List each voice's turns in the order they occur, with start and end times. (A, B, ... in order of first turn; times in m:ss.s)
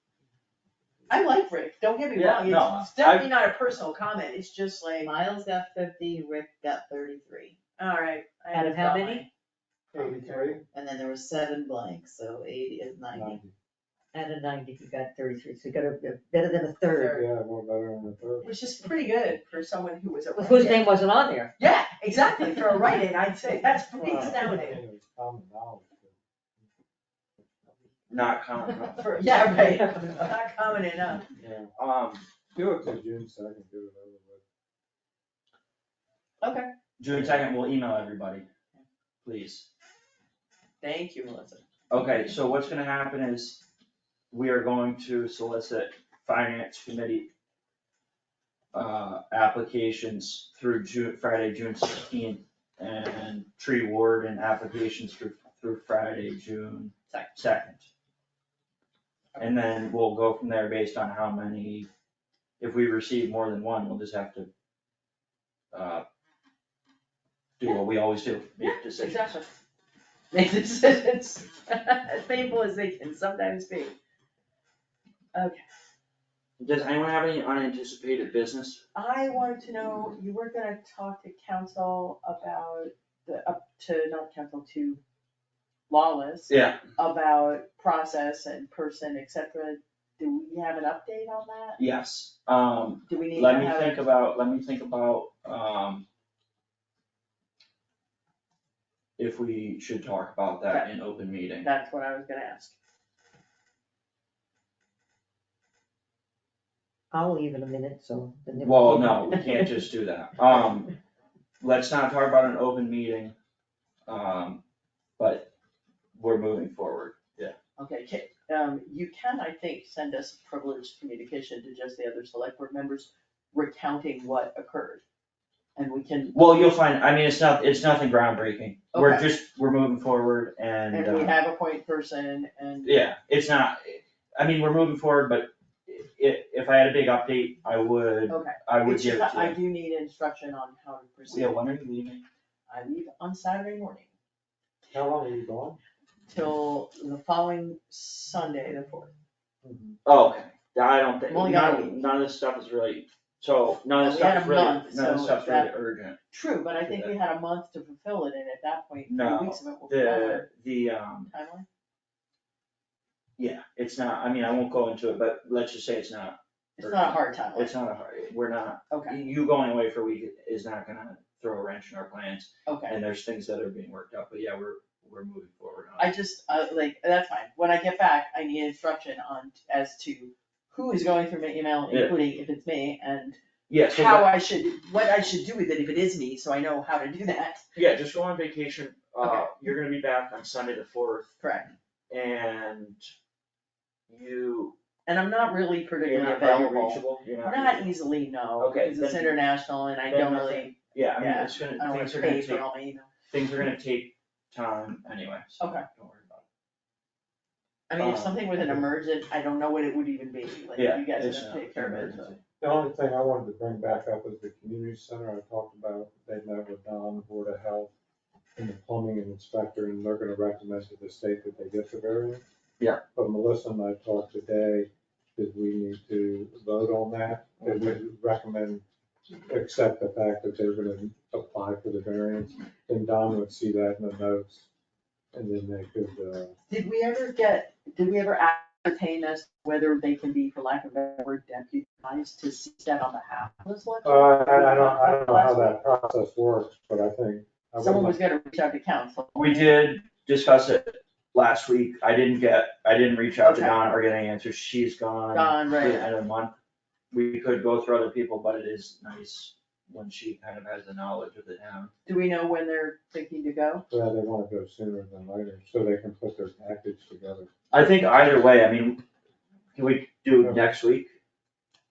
0:01.1-0:05.1 A
0:02.1-0:03.3 B
0:05.0-0:07.6 C
0:07.8-0:09.3 A
0:08.5-0:09.2 D
0:09.9-0:10.6 E
0:10.0-0:13.4 C
0:13.1-0:13.6 E
0:14.1-0:17.2 D
0:17.0-0:17.2 A
0:17.0-0:18.5 E
0:18.4-0:20.9 A
0:20.4-0:21.5 D
0:21.6-0:24.8 A
0:24.0-0:26.2 E
0:28.1-0:29.1 B
0:29.0-0:31.2 A
0:31.4-0:31.7 E
0:31.8-0:32.3 B
0:32.7-0:34.4 E
0:36.4-0:36.7 A
0:37.0-0:38.5 B
0:39.2-0:39.7 B
0:40.8-0:41.6 A
0:41.9-0:43.6 B
0:44.3-0:47.3 B
0:48.7-0:57.9 B
0:59.4-1:01.9 B
1:02.6-1:04.5 B
1:05.7-1:06.0 B
1:07.6-1:09.3 B
1:08.6-1:09.5 A
1:10.3-1:14.0 A
1:15.3-1:15.6 A
1:16.6-1:18.8 B
1:18.9-1:25.0 A
1:25.9-1:31.8 A
1:26.5-1:26.8 B
1:31.8-1:36.1 B
1:33.1-1:34.0 A
1:39.2-1:41.7 B
1:41.6-1:42.8 A
1:47.1-1:49.7 D
1:48.6-1:50.9 B
1:51.6-1:53.4 B
1:54.1-1:54.6 B
1:55.2-1:55.5 B
1:56.2-1:57.6 B
1:57.8-2:05.0 A
2:05.8-2:06.4 A
2:06.3-2:11.4 B
2:08.9-2:09.3 A
2:10.9-2:13.0 A
2:12.8-2:19.6 B
2:18.3-2:21.6 A
2:21.3-2:22.2 B
2:22.7-2:24.1 A
2:24.9-2:25.8 E
2:26.3-2:29.1 A
2:29.6-2:30.0 E
2:30.0-2:36.2 B
2:31.3-2:32.0 A
2:34.0-2:35.7 A
2:36.3-2:40.5 A
2:36.8-2:37.2 B
2:39.1-2:41.3 B
2:41.3-2:41.7 A
2:43.4-2:56.1 B
2:46.8-2:47.7 A
2:48.9-2:49.2 A
2:52.7-2:53.0 A
2:56.0-3:07.6 A
3:01.9-3:02.2 B
3:03.7-3:04.4 B
3:07.8-3:11.4 B
3:11.4-3:11.7 A
3:12.1-3:13.1 B
3:14.1-3:14.8 B
3:15.1-3:23.1 A
3:16.0-3:17.9 B
3:18.6-3:19.4 B
3:20.1-3:22.7 B
3:23.3-3:26.4 B
3:25.6-3:25.9 A
3:27.9-3:32.4 A
3:28.0-3:28.5 B
3:30.8-3:32.4 B
3:32.6-3:37.9 E
3:38.6-3:42.4 E
3:43.2-3:48.8 E
3:49.5-3:54.7 E
3:55.3-3:56.6 E
3:56.7-4:05.8 A
4:04.0-4:08.2 E
4:07.8-4:09.9 A
4:09.4-4:16.5 B
4:13.4-4:13.8 A
4:15.3-4:16.1 A
4:17.1-4:21.9 B
4:22.1-4:23.8 A
4:23.9-4:27.5 E
4:27.7-4:29.0 B
4:29.8-4:31.1 B